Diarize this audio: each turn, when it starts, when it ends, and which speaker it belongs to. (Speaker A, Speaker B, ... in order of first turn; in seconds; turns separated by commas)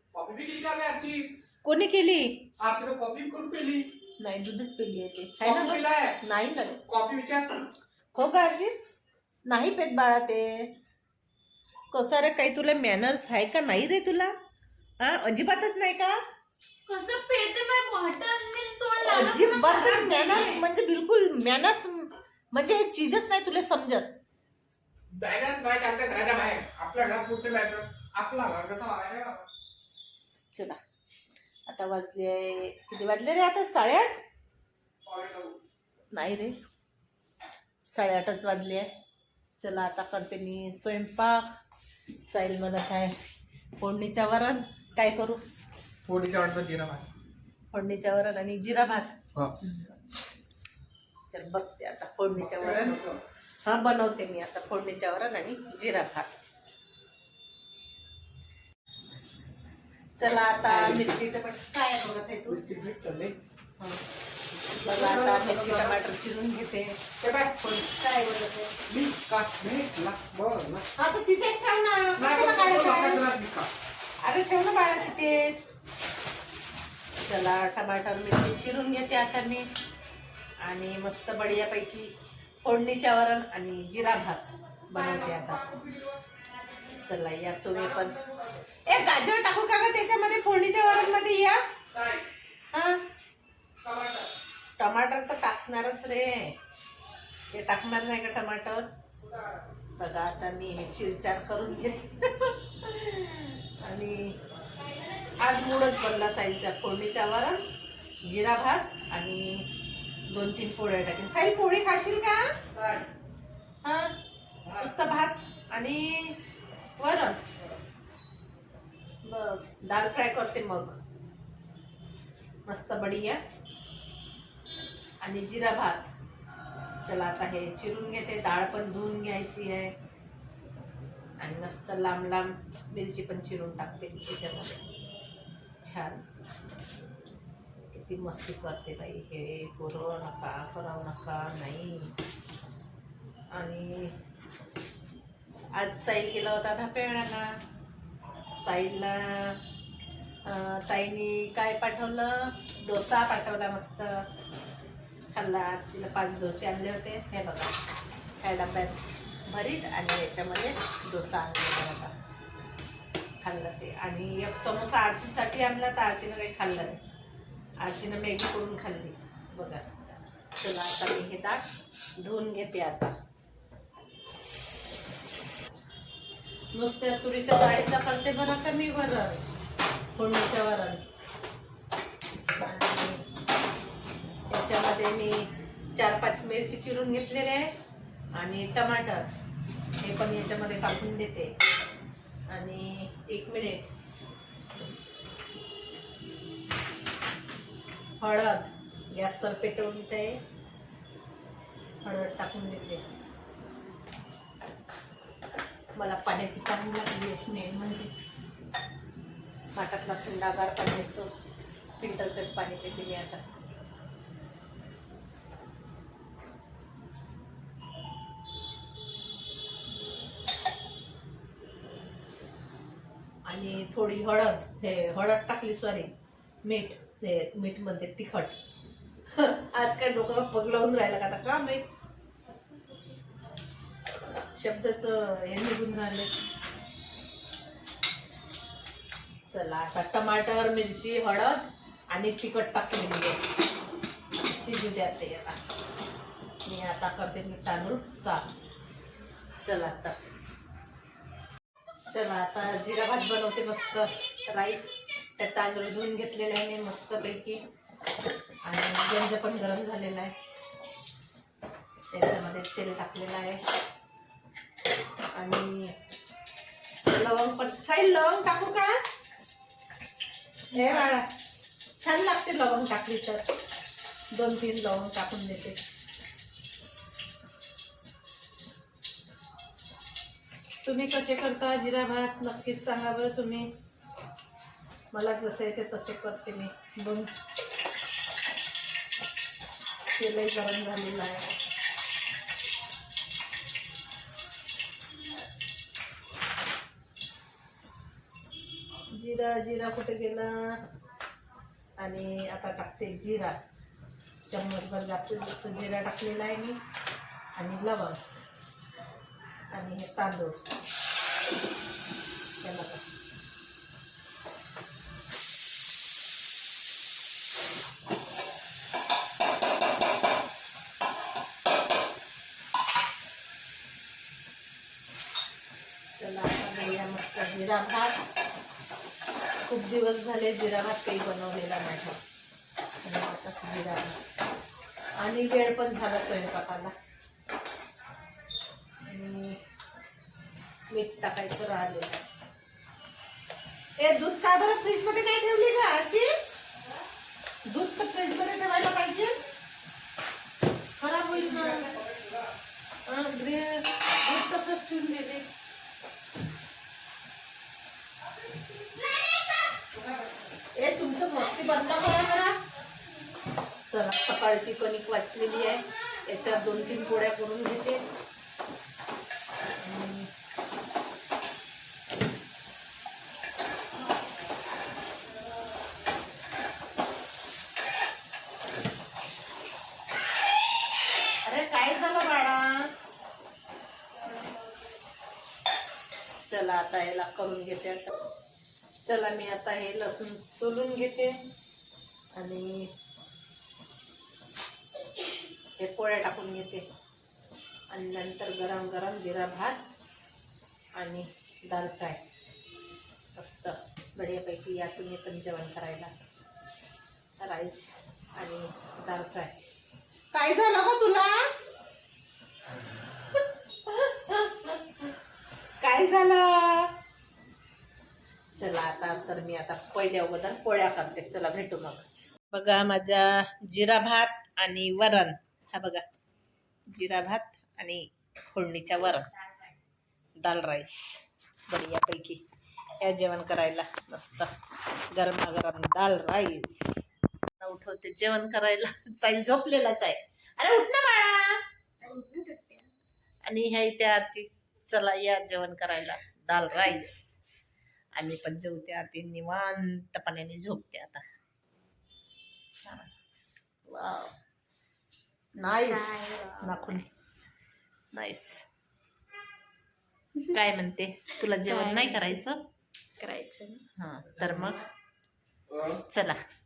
Speaker A: 0.1-1.3, Speaker B: 1.6-2.4, Speaker A: 2.6-3.9, Speaker B: 4.2-6.8, Speaker A: 5.4-6.2, Speaker A: 6.8-7.7, Speaker B: 8.1-8.7, Speaker B: 9.5-10.7, Speaker B: 11.9-14.3, Speaker B: 15.0-16.2, Speaker C: 16.9-20.6, Speaker B: 19.0-24.1, Speaker A: 25.1-29.5, Speaker B: 30.5-30.8, Speaker B: 31.7-34.2, Speaker A: 35.0-35.6, Speaker B: 36.1-36.5, Speaker B: 37.9-38.9, Speaker B: 39.6-41.5, Speaker B: 42.3-43.1, Speaker B: 43.8-45.4, Speaker A: 46.0-47.1, Speaker B: 47.7-50.0, Speaker B: 51.3-53.0, Speaker A: 52.4-53.2, Speaker B: 53.6-56.4, Speaker B: 60.1-62.6, Speaker A: 60.7-61.0, Speaker A: 62.5-63.4, Speaker A: 64.7-66.0, Speaker B: 64.8-67.0, Speaker A: 67.2-67.8, Speaker B: 67.6-68.7, Speaker A: 68.9-70.8, Speaker B: 71.0-73.2, Speaker A: 72.2-73.7, Speaker B: 74.2-75.7, Speaker B: 77.2-79.7, Speaker B: 80.6-82.1, Speaker B: 82.6-85.8, Speaker A: 84.9-86.2, Speaker B: 86.9-88.2, Speaker A: 87.7-88.6, Speaker B: 88.8-91.6, Speaker A: 91.9-92.3, Speaker B: 92.7-93.0, Speaker A: 93.8-94.3, Speaker B: 94.8-96.5, Speaker B: 97.5-98.9, Speaker A: 99.2-99.6, Speaker B: 100.0-104.3, Speaker B: 105.3-107.6, Speaker B: 108.2-109.7, Speaker B: 110.3-112.5, Speaker A: 112.7-113.1, Speaker B: 113.8-114.1, Speaker A: 114.6-115.0, Speaker B: 114.8-116.4, Speaker B: 117.0-117.4, Speaker B: 119.2-121.0, Speaker B: 122.7-123.4, Speaker B: 125.2-126.1, Speaker B: 127.0-129.9, Speaker B: 131.4-134.8, Speaker B: 135.8-136.2, Speaker B: 137.9-142.1, Speaker B: 143.5-144.1, Speaker B: 145.8-147.5, Speaker B: 148.6-149.6, Speaker B: 150.4-154.2, Speaker B: 155.3-157.7, Speaker B: 158.4-162.1, Speaker B: 163.4-167.0, Speaker B: 167.8-169.8, Speaker B: 170.6-171.6, Speaker B: 172.2-173.1, Speaker B: 176.7-179.4, Speaker B: 180.2-181.0, Speaker B: 182.6-183.2, Speaker B: 184.5-187.7, Speaker B: 188.3-189.3, Speaker B: 190.0-191.5, Speaker B: 192.5-193.9, Speaker B: 198.2-200.4, Speaker B: 202.0-203.0, Speaker B: 206.0-208.1, Speaker B: 209.7-211.3, Speaker B: 212.0-213.4, Speaker B: 223.4-226.1, Speaker B: 226.6-228.6, Speaker B: 229.3-231.8, Speaker B: 234.3-236.3, Speaker B: 239.5-243.4, Speaker B: 244.3-245.6, Speaker B: 246.7-248.4, Speaker B: 249.6-250.2, Speaker B: 252.1-257.6, Speaker B: 258.6-260.3, Speaker B: 262.1-263.6, Speaker B: 265.3-265.9, Speaker B: 267.1-269.0, Speaker B: 270.7-271.3, Speaker B: 272.0-273.4, Speaker B: 274.3-275.8, Speaker B: 280.8-283.7, Speaker B: 285.1-287.3, Speaker B: 290.1-291.5, Speaker B: 299.1-300.8, Speaker B: 302.0-303.6, Speaker B: 304.5-306.8, Speaker B: 307.6-308.2, Speaker B: 309.7-310.6, Speaker B: 312.6-313.0, Speaker B: 326.2-328.2, Speaker B: 329.6-332.2, Speaker B: 333.0-334.2, Speaker B: 335.2-336.9, Speaker B: 339.0-339.6, Speaker B: 340.9-342.2, Speaker B: 344.0-346.3, Speaker B: 347.7-349.4, Speaker B: 351.0-351.9, Speaker A: 351.5-352.4, Speaker B: 353.1-355.5, Speaker B: 360.8-362.6, Speaker B: 363.9-368.0, Speaker B: 369.8-370.3, Speaker B: 381.4-382.9, Speaker B: 386.4-388.1, Speaker B: 389.0-391.4, Speaker B: 392.4-392.9, Speaker B: 395.8-396.8, Speaker B: 397.9-399.8, Speaker B: 401.0-402.2, Speaker B: 403.3-406.1, Speaker B: 407.4-409.5, Speaker B: 410.3-411.5, Speaker B: 413.9-414.9, Speaker B: 415.8-416.9, Speaker B: 418.5-426.0, Speaker B: 426.9-429.5, Speaker B: 430.4-432.4, Speaker B: 433.0-434.5, Speaker B: 435.1-436.9, Speaker B: 437.6-441.6, Speaker C: 442.1-442.8, Speaker B: 443.5-447.2, Speaker B: 448.1-451.2, Speaker B: 452.7-453.1, Speaker B: 453.9-454.3, Speaker B: 455.6-457.2, Speaker C: 455.9-456.5, Speaker B: 458.1-458.6, Speaker B: 460.4-462.6, Speaker C: 461.7-462.2, Speaker C: 463.2-463.8, Speaker B: 463.9-464.9, Speaker B: 465.9-466.4